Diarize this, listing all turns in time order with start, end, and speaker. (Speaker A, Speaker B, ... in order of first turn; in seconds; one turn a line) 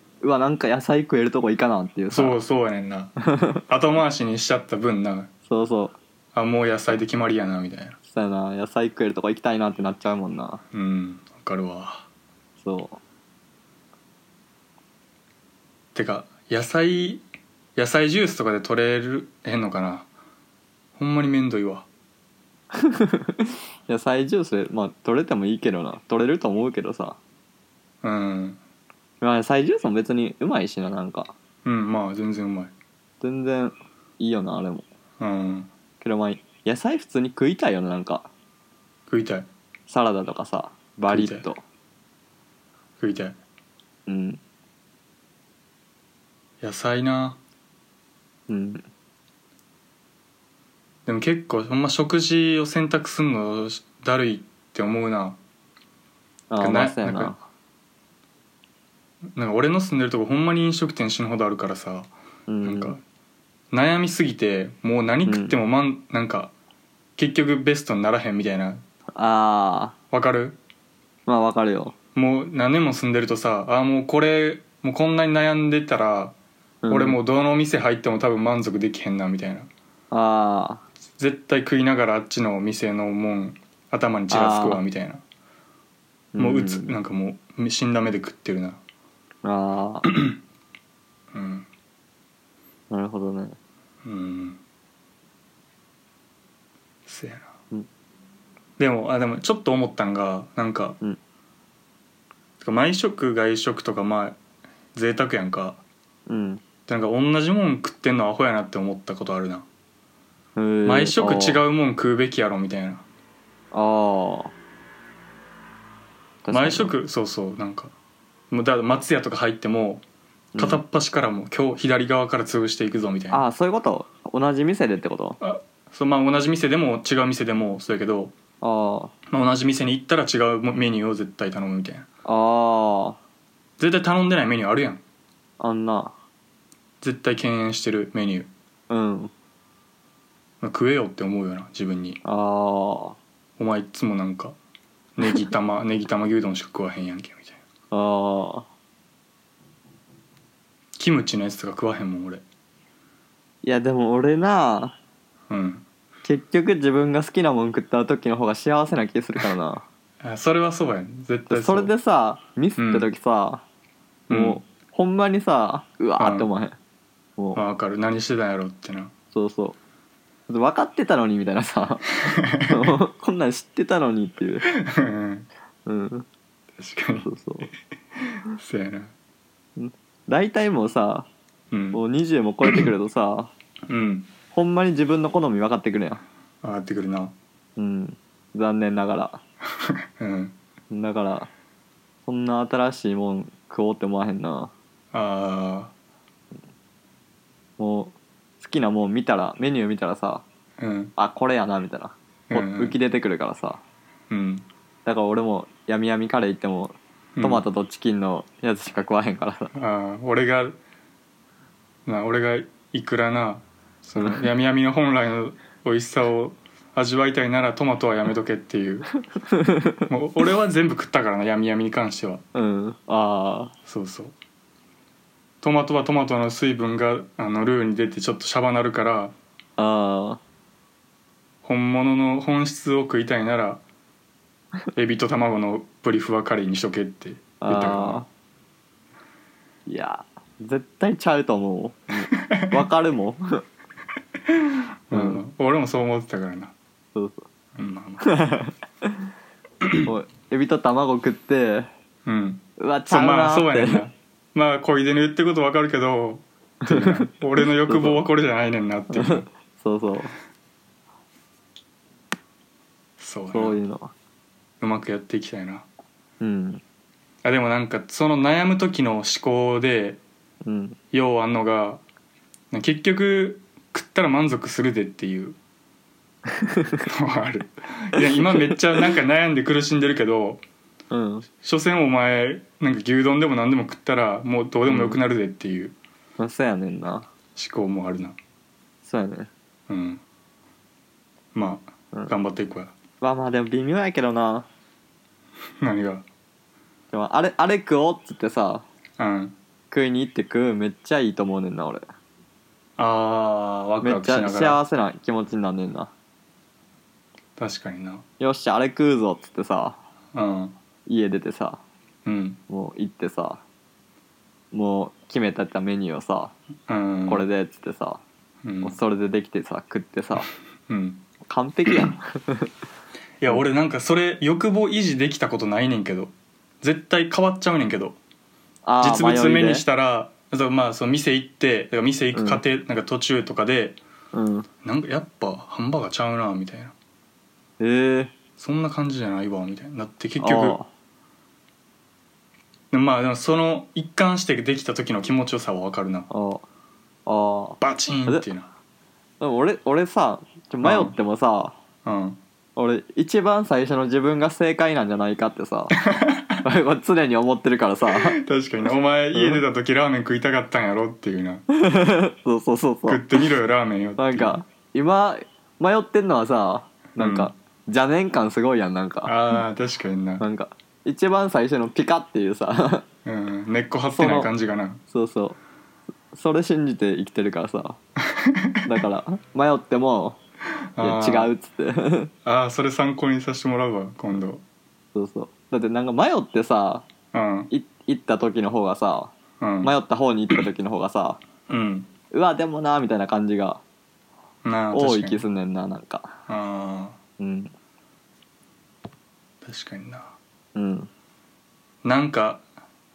Speaker A: 0.2-2.4
Speaker B: 2.1-3.1
Speaker A: 3.2-3.6
Speaker B: 3.7-5.3
Speaker A: 5.5-6.0
Speaker B: 6.3-8.0
Speaker A: 8.1-10.6
Speaker B: 10.7-12.1
Speaker A: 12.6-13.0
Speaker B: 15.9-17.2
Speaker B: 17.8-20.1
Speaker B: 20.9-21.9
Speaker A: 22.7-27.2
Speaker B: 28.0-28.6
Speaker A: 29.2-31.3
Speaker B: 31.6-32.7
Speaker A: 33.2-34.9
Speaker B: 35.2-35.7
Speaker A: 36.0-38.3
Speaker B: 39.1-39.5
Speaker A: 39.9-41.6
Speaker B: 41.1-41.5
Speaker B: 43.0-43.4
Speaker A: 44.1-44.4
Speaker B: 46.6-47.4
Speaker A: 48.5-48.9
Speaker B: 51.0-55.4
Speaker A: 56.5-57.4
Speaker B: 56.6-57.3
Speaker B: 59.3-62.1
Speaker A: 62.5-63.0
Speaker B: 62.6-63.0
Speaker B: 63.7-66.5
Speaker A: 65.2-65.5
Speaker B: 67.2-68.8
Speaker A: 69.2-70.0
Speaker B: 70.1-70.6
Speaker A: 71.2-71.9
Speaker B: 72.1-76.3
Speaker A: 76.8-77.2
Speaker B: 76.9-79.7
Speaker A: 80.1-80.8
Speaker B: 81.2-85.2
Speaker A: 84.3-84.8
Speaker A: 86.3-87.0
Speaker B: 86.4-88.8
Speaker A: 89.4-90.1
Speaker B: 90.0-90.4
Speaker B: 91.3-91.7
Speaker A: 92.9-93.6
Speaker B: 94.0-94.6
Speaker B: 97.0-97.5
Speaker B: 98.8-101.0
Speaker B: 102.6-104.4
Speaker B: 104.9-105.8
Speaker A: 106.3-106.6
Speaker B: 106.9-109.7
Speaker A: 110.5-111.6
Speaker B: 110.8-113.0
Speaker A: 113.7-114.5
Speaker A: 116.4-116.9
Speaker B: 116.5-117.9
Speaker B: 118.5-120.0
Speaker A: 120.5-120.8
Speaker B: 120.6-123.4
Speaker A: 123.3-125.4
Speaker B: 125.4-128.3
Speaker A: 128.6-129.1
Speaker B: 129.3-132.1
Speaker A: 132.2-133.2
Speaker B: 133.8-135.0
Speaker A: 135.6-136.1
Speaker B: 137.0-138.5
Speaker A: 138.9-139.3
Speaker B: 140.6-142.2
Speaker A: 142.2-143.2
Speaker B: 143.6-144.6
Speaker B: 145.2-147.6
Speaker A: 147.9-148.7
Speaker B: 151.0-152.4
Speaker A: 153.6-155.0
Speaker B: 155.5-155.8
Speaker A: 156.2-159.8
Speaker B: 160.2-161.9
Speaker A: 161.5-163.6
Speaker B: 162.8-163.1
Speaker B: 164.3-164.6
Speaker A: 164.3-166.8
Speaker B: 166.2-166.5
Speaker A: 167.4-167.6
Speaker B: 167.5-169.1
Speaker A: 169.3-169.8
Speaker A: 170.5-174.7
Speaker B: 172.2-172.9
Speaker B: 174.7-175.5
Speaker A: 175.8-176.2
Speaker B: 176.8-177.3
Speaker A: 177.2-177.7
Speaker B: 178.2-179.1
Speaker A: 179.8-181.3
Speaker B: 181.7-182.0
Speaker A: 181.9-183.5
Speaker B: 183.9-184.3
Speaker A: 184.5-186.2
Speaker B: 186.6-187.3
Speaker A: 187.8-189.4
Speaker B: 189.8-190.6
Speaker A: 190.9-191.5
Speaker A: 192.2-194.7
Speaker B: 195.1-195.9
Speaker A: 197.8-200.4
Speaker B: 200.8-201.1
Speaker A: 201.2-203.8
Speaker B: 202.5-202.9
Speaker B: 204.3-204.7
Speaker A: 205.0-209.7
Speaker B: 207.3-207.6
Speaker B: 209.7-210.8
Speaker B: 212.1-219.1
Speaker A: 214.2-214.4
Speaker A: 219.4-220.0
Speaker B: 220.1-222.4
Speaker A: 222.5-223.7
Speaker B: 223.8-224.3
Speaker B: 225.6-229.3
Speaker A: 229.8-230.4
Speaker B: 231.6-233.8
Speaker B: 234.9-238.2
Speaker A: 237.6-238.3
Speaker A: 239.8-243.6
Speaker B: 242.4-242.8
Speaker B: 244.5-246.7
Speaker A: 245.1-245.4
Speaker A: 247.1-247.5
Speaker B: 247.8-248.3
Speaker A: 248.2-249.3
Speaker B: 249.8-250.1
Speaker A: 250.0-251.9
Speaker B: 252.2-259.4
Speaker A: 252.8-254.0
Speaker A: 256.8-258.2
Speaker A: 259.1-260.3
Speaker B: 263.2-263.8
Speaker A: 263.5-264.1
Speaker B: 264.8-265.9
Speaker A: 266.4-266.8
Speaker B: 267.4-270.2
Speaker A: 270.6-271.0
Speaker B: 271.1-272.0
Speaker B: 272.7-275.6
Speaker A: 276.5-277.0
Speaker B: 277.1-280.6
Speaker A: 278.3-278.7
Speaker A: 281.1-281.5
Speaker B: 281.6-285.9
Speaker A: 284.9-285.2
Speaker A: 286.4-287.3
Speaker B: 287.6-288.4
Speaker A: 289.0-289.5
Speaker B: 289.9-290.2
Speaker B: 291.5-292.9
Speaker A: 293.2-294.7
Speaker B: 295.8-296.2
Speaker A: 297.1-298.9
Speaker B: 299.2-299.6
Speaker A: 299.9-302.0
Speaker B: 303.0-304.8
Speaker A: 304.0-306.1
Speaker B: 307.6-308.2
Speaker A: 308.4-310.0
Speaker B: 310.3-310.8
Speaker A: 311.1-311.8
Speaker B: 312.2-312.6
Speaker A: 312.7-313.6
Speaker A: 314.7-316.5
Speaker B: 316.9-317.4
Speaker A: 317.3-318.2
Speaker B: 318.6-318.9
Speaker A: 318.8-320.5
Speaker B: 320.9-321.2
Speaker A: 321.5-322.7
Speaker B: 323.4-328.2
Speaker A: 328.8-329.8
Speaker B: 329.0-334.0
Speaker A: 332.3-332.6
Speaker A: 334.3-334.7
Speaker B: 334.8-336.9
Speaker A: 337.8-338.3
Speaker B: 338.6-340.8
Speaker A: 340.4-340.9
Speaker B: 342.9-346.3
Speaker A: 346.3-346.6
Speaker A: 347.2-348.4
Speaker B: 347.8-348.7
Speaker A: 349.4-351.8
Speaker B: 350.8-351.1
Speaker B: 352.0-352.4
Speaker A: 352.8-356.0
Speaker B: 356.0-356.6
Speaker A: 356.6-358.4
Speaker B: 358.1-361.6
Speaker A: 359.3-359.6
Speaker A: 361.7-363.4
Speaker B: 363.1-364.6
Speaker A: 364.2-369.5
Speaker B: 367.2-367.5
Speaker B: 369.2-370.4
Speaker A: 370.4-373.1
Speaker B: 373.2-375.0
Speaker A: 374.1-374.5
Speaker A: 375.1-375.6
Speaker A: 376.3-378.0
Speaker B: 378.3-378.9
Speaker A: 378.8-380.4
Speaker B: 380.9-381.5
Speaker A: 381.0-382.3
Speaker B: 382.4-384.6
Speaker A: 385.1-387.1
Speaker B: 387.3-387.7
Speaker A: 387.7-391.4
Speaker B: 389.6-389.9
Speaker B: 391.7-392.1
Speaker A: 392.3-393.8
Speaker B: 394.6-395.4
Speaker A: 394.9-396.4
Speaker B: 396.5-397.2
Speaker A: 397.4-397.7
Speaker B: 399.6-400.3
Speaker A: 400.7-401.1
Speaker B: 402.0-402.6